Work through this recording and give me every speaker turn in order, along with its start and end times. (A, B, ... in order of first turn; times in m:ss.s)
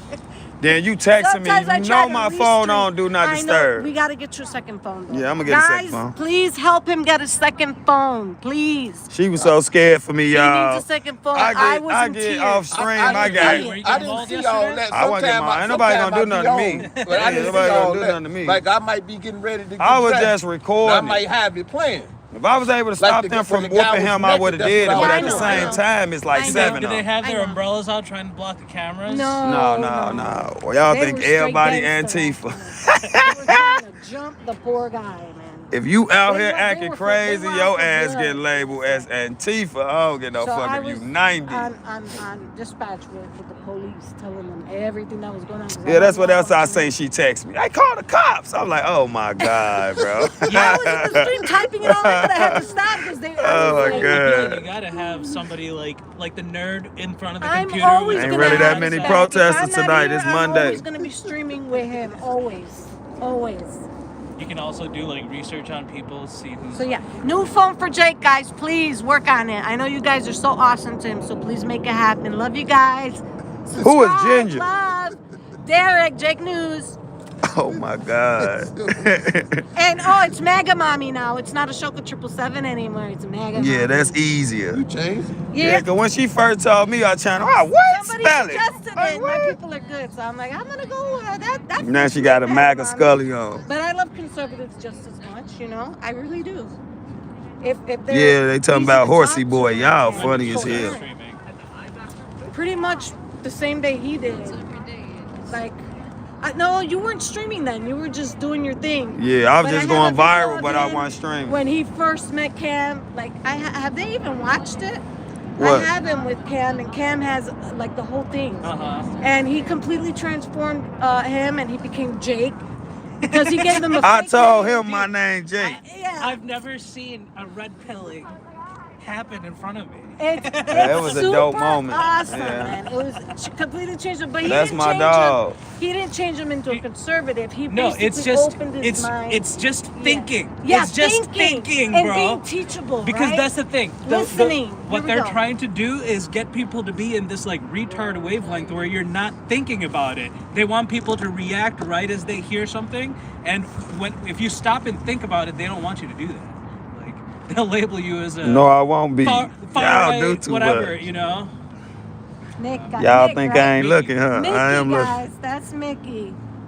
0:00.6-0:03.9 A
0:01.2-0:09.1 B
0:05.1-0:06.2 A
0:09.1-0:13.7 A
0:10.3-0:14.1 B
0:11.3-0:11.8 C
0:12.7-0:22.2 C
0:13.0-0:14.9 D
0:14.9-0:18.6 A
0:16.8-0:17.7 D
0:19.8-0:21.2 A
0:22.3-0:27.1 A
0:23.0-0:25.8 C
0:24.9-0:27.6 B
0:26.3-0:29.4 D
0:29.0-0:35.7 B
0:29.4-0:33.8 A
0:35.7-0:41.8 A
0:36.2-0:39.1 B
0:40.4-0:46.9 B
0:45.8-0:52.7 A
0:49.9-0:50.5 C
0:50.5-0:54.3 B
0:53.4-0:54.7 A
0:53.7-0:59.3 D
0:54.9-0:55.4 B
0:57.4-1:03.9 B
0:58.1-1:00.9 A
1:04.4-1:07.0 D
1:06.8-1:13.2 B
1:13.7-1:17.0 B
1:13.8-1:14.7 A
1:17.5-1:19.6 A
1:17.6-1:19.2 C
1:19.8-1:24.2 B
1:23.5-1:24.8 A
1:24.7-1:25.4 C
1:25.5-1:25.9 B
1:25.6-1:29.6 A
1:27.9-1:36.8 B
1:31.8-1:33.7 A
1:37.6-1:41.1 B
1:38.1-1:41.0 A
1:40.1-1:41.4 D
1:42.5-1:44.7 B
1:45.4-1:45.8 B
1:46.4-1:55.0 B
1:49.2-1:51.6 A
1:55.6-1:55.9 A
1:55.6-2:02.6 B
1:58.6-1:59.1 D
2:03.2-2:04.1 D
2:03.3-2:04.9 B
2:04.0-2:05.8 A
2:04.8-2:05.1 D
2:05.6-2:06.4 B
2:06.2-2:08.3 D
2:09.0-2:11.0 D
2:10.2-2:23.5 B
2:10.7-2:12.8 A
2:14.4-2:15.6 A
2:17.7-2:22.4 D
2:23.0-2:41.5 D
2:24.0-2:25.4 B
2:38.4-2:41.0 A
2:42.6-2:46.4 B
2:42.7-2:42.9 D
2:43.0-2:45.2 A
2:43.6-2:44.2 D